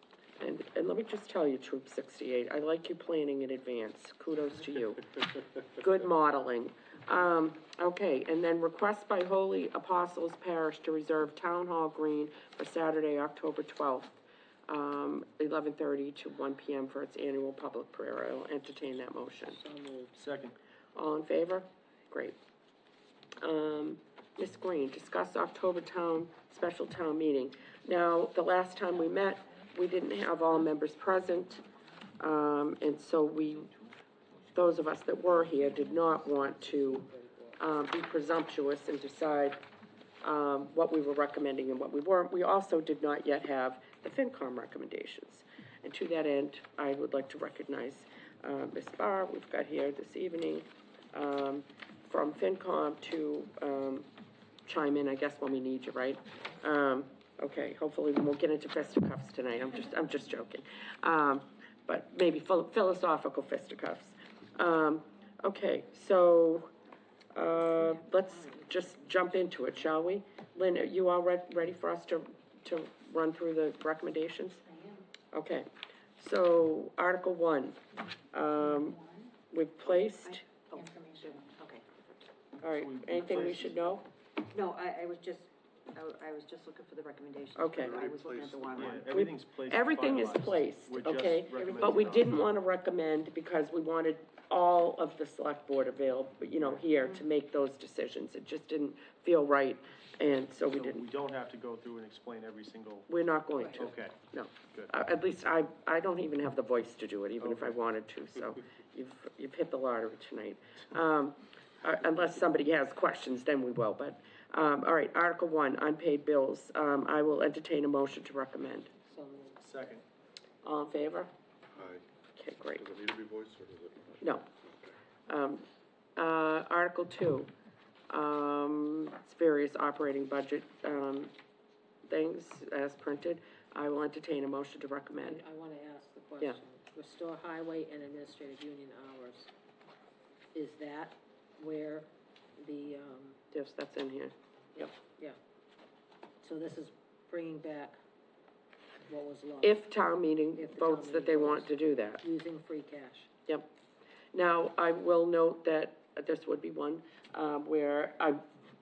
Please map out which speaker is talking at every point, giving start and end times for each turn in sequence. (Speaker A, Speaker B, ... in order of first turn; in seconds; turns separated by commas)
Speaker A: 0.4-14.2, Speaker A: 14.7-19.6, Speaker B: 19.5-20.1, Speaker C: 20.1-20.6, Speaker A: 20.9-22.4, Speaker A: 23.4-31.6, Speaker A: 32.2-33.7, Speaker A: 34.5-39.6, Speaker B: 36.9-37.6, Speaker A: 40.2-54.1, Speaker A: 54.6-66.7, Speaker A: 67.3-74.6, Speaker D: 67.8-68.9, Speaker D: 74.7-75.0, Speaker A: 75.3-77.8, Speaker A: 78.3-80.4, Speaker D: 80.2-81.9, Speaker A: 82.6-84.0, Speaker C: 82.7-83.9, Speaker D: 84.5-89.1, Speaker A: 87.5-88.0, Speaker E: 87.7-89.1, Speaker C: 88.7-92.4, Speaker A: 89.1-101.0, Speaker D: 91.5-92.3, Speaker C: 96.6-96.8, Speaker C: 100.7-103.1, Speaker A: 103.1-118.9, Speaker C: 103.7-104.2, Speaker C: 107.4-107.8, Speaker B: 119.1-119.6, Speaker C: 119.6-120.0, Speaker A: 120.6-121.3, Speaker E: 121.7-122.0, Speaker A: 122.3-122.8, Speaker E: 122.7-125.0, Speaker A: 124.2-124.5, Speaker A: 125.3-125.6, Speaker A: 126.2-127.5, Speaker A: 128.1-131.3, Speaker A: 132.1-135.4, Speaker B: 135.2-139.5, Speaker B: 140.5-143.4, Speaker A: 143.5-144.9, Speaker B: 144.8-145.4, Speaker B: 146.4-148.0, Speaker B: 149.1-149.8, Speaker A: 149.6-152.2, Speaker B: 150.5-153.3, Speaker A: 154.3-158.4